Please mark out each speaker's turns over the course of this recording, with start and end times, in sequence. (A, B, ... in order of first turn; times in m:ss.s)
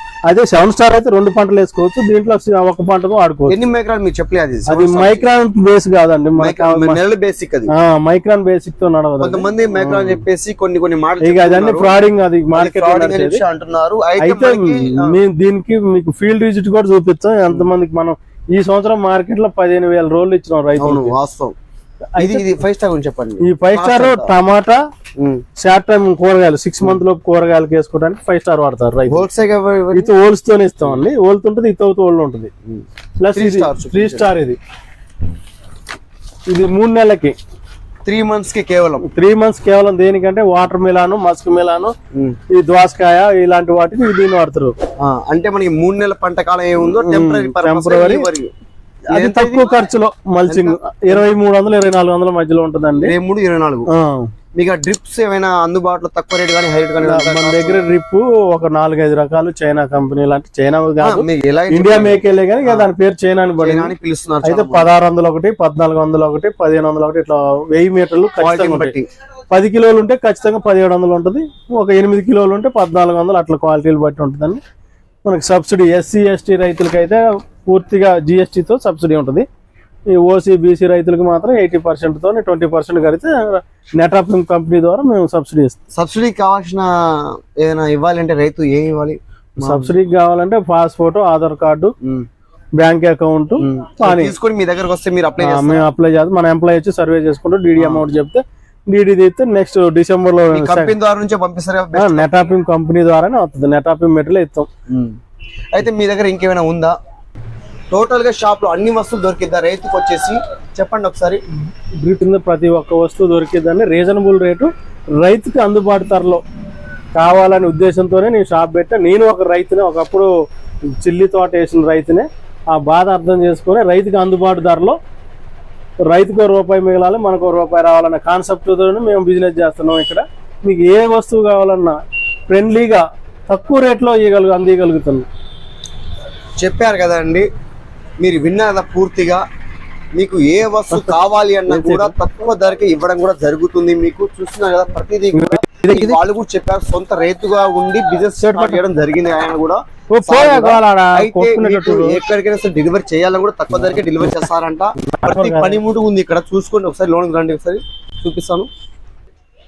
0:00.3-0:03.6 A
0:03.5-0:05.2 B
0:04.7-0:07.0 A
0:06.4-0:07.7 B
0:07.7-0:10.2 A
0:09.2-0:12.0 B
0:11.2-0:13.4 A
0:12.6-0:15.2 B
0:14.2-0:21.1 A
0:20.8-0:21.6 B
0:22.2-0:22.5 A
0:22.2-0:24.3 B
0:23.4-0:24.8 A
0:25.2-0:25.4 B
0:25.6-0:29.2 A
0:29.1-0:30.1 B
0:30.0-0:32.5 A
0:32.7-0:34.3 B
0:33.2-0:34.6 A
0:36.5-0:37.4 A
0:38.0-0:39.1 B
0:39.1-0:42.0 A
0:42.5-0:44.8 A
0:45.0-0:48.5 B
0:47.0-0:48.3 A
0:49.1-0:49.8 B
0:49.1-0:53.1 A
0:50.5-0:51.3 B
0:53.0-0:53.9 B
0:53.9-0:54.3 A
0:54.6-0:57.8 B
0:57.0-1:03.9 A
1:01.0-1:02.9 B
1:03.6-1:04.9 B
1:04.5-1:08.9 A
1:08.4-1:09.1 B
1:09.5-1:14.6 A
1:15.2-1:19.5 A
1:20.1-1:25.8 A
1:26.0-1:29.9 B
1:29.6-1:31.9 A
1:32.0-1:32.3 B
1:32.8-1:34.3 A
1:33.6-1:35.8 B
1:35.4-1:40.9 A
1:37.8-1:38.0 B
1:40.5-1:42.5 B
1:42.0-1:44.7 A
1:44.9-1:45.2 B
1:45.7-1:47.0 B
1:47.9-1:51.4 B
1:52.0-1:56.4 A
1:57.2-2:00.3 A
2:01.0-2:05.0 A
2:06.1-2:15.3 A
2:16.6-2:17.5 B
2:18.2-2:19.4 B
2:20.2-2:38.7 B
2:21.7-2:22.1 A
2:25.3-2:26.2 A
2:28.4-2:28.8 A
2:30.1-2:32.2 A
2:35.2-2:35.8 A